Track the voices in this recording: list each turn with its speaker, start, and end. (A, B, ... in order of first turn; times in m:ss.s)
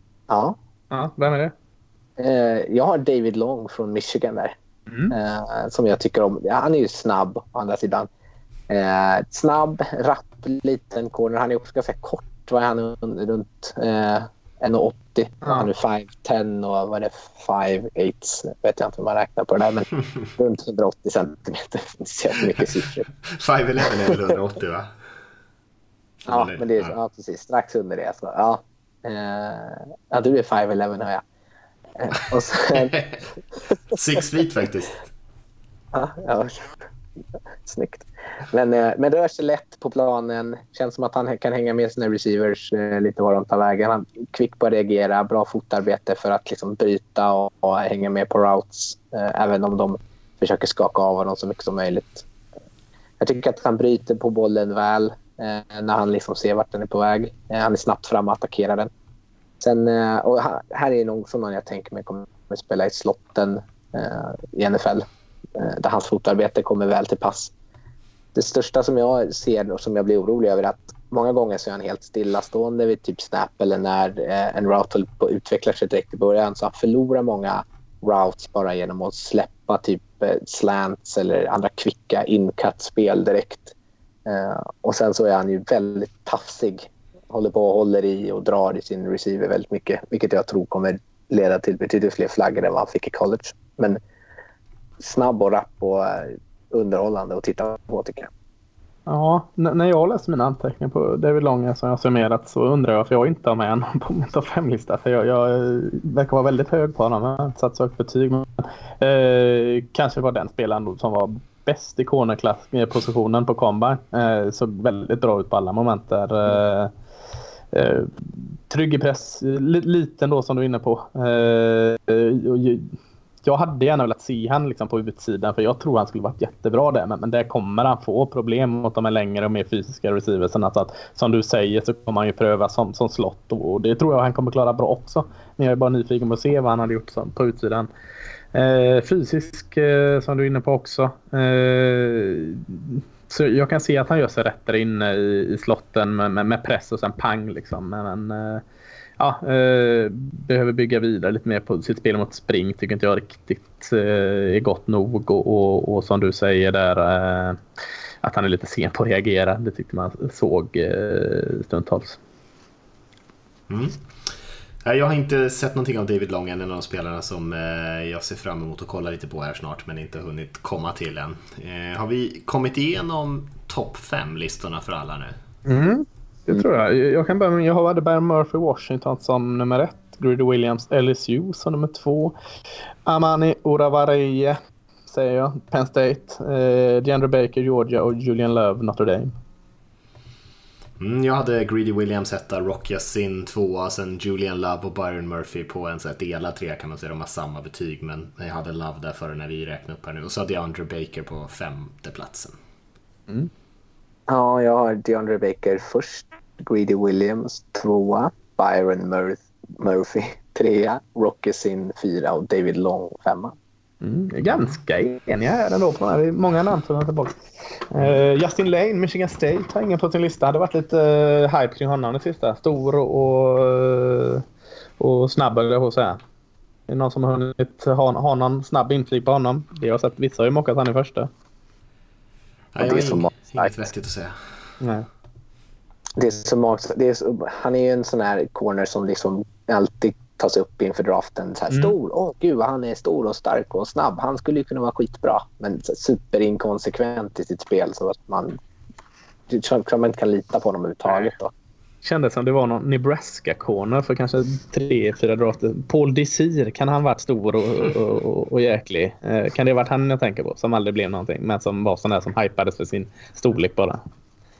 0:00.3-0:00.6 A
0:00.9-0:01.5 B
0:02.2-0:04.5 A
0:04.9-0:05.1 B
0:05.1-0:08.1 A
0:08.7-0:23.1 A
0:15.4-0:15.7 B
0:23.3-0:24.9 C
0:23.9-0:24.2 A
0:26.2-0:26.9 C
0:26.3-0:31.2 A
0:32.0-0:32.9 A
0:32.8-0:33.2 C
0:33.9-0:35.0 C
0:35.9-0:36.7 A
0:37.6-0:52.2 A
0:53.2-0:58.9 A
0:59.6-1:05.0 A
1:05.6-1:07.5 A
1:08.3-1:23.7 A
1:24.2-1:34.0 A
1:35.0-1:38.3 A
1:39.1-1:56.9 B
1:57.7-2:17.9 B
2:18.5-2:28.6 B
2:29.2-2:37.6 B
2:38.2-2:42.2 B
2:43.7-2:44.0 C
2:44.8-2:55.3 C
2:55.6-3:02.3 B
3:03.0-3:09.3 B
3:11.0-3:22.5 C
3:24.3-3:33.5 A
3:34.0-3:37.4 B
3:37.9-3:44.4 B
3:45.0-3:46.2 B
3:46.9-3:51.3 B
3:52.7-3:54.4 C
3:52.8-3:53.9 A
3:54.8-3:55.0 B
3:56.2-4:08.6 A
4:09.5-4:11.5 A
4:12.0-4:24.0 B